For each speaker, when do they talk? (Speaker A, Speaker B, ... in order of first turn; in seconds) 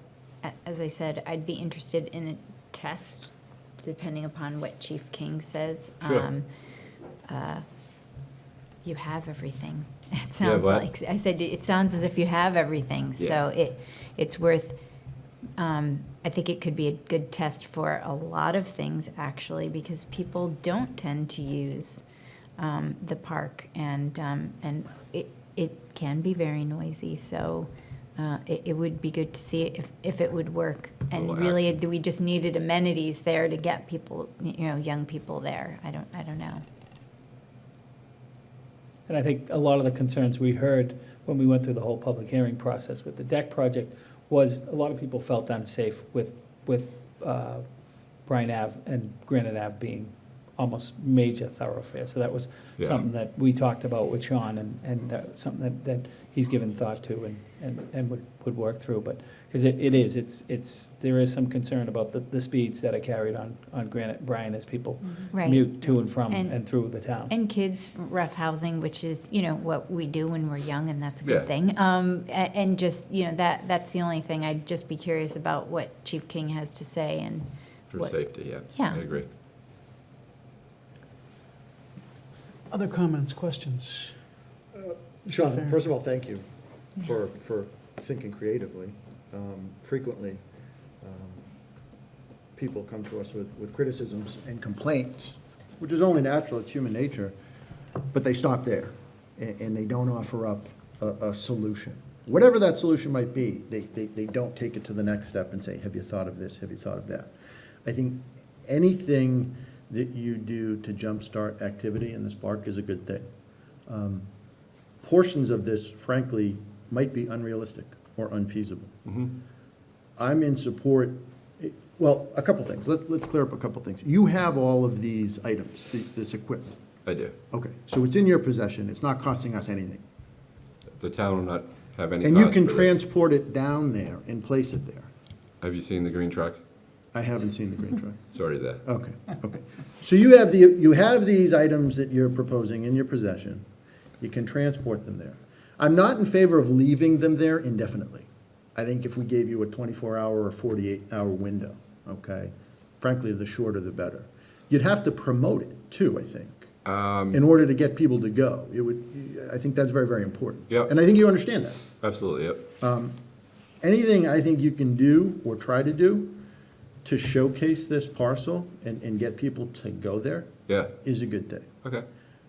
Speaker A: 0.4-6.5, 7.3-7.6, 8.8-14.8, 15.6-22.0, 22.6-36.6, 65.3-66.6, 67.2-78.1, 78.7-79.0
Speaker B: 10.4-10.8, 31.1-31.7, 71.2-71.5, 77.9-79.3, 119.0-119.3, 127.0-127.3, 131.0-133.0, 135.6-136.6, 138.3-138.8, 156.8-157.4, 162.0-162.6
Speaker C: 39.1-47.6, 48.2-67.3, 82.7-84.1
Speaker D: 84.7-86.4, 87.0-90.4, 91.0-91.4, 92.5-97.3, 98.1-107.3, 107.8-113.2, 113.9-114.3, 115.0-118.9, 120.2-126.7, 127.5-130.0, 132.2-135.1, 137.1-138.2, 138.8-143.6, 144.2-156.7, 157.3-161.8, 162.8-163.1, 163.8-166.3, 167.0-171.7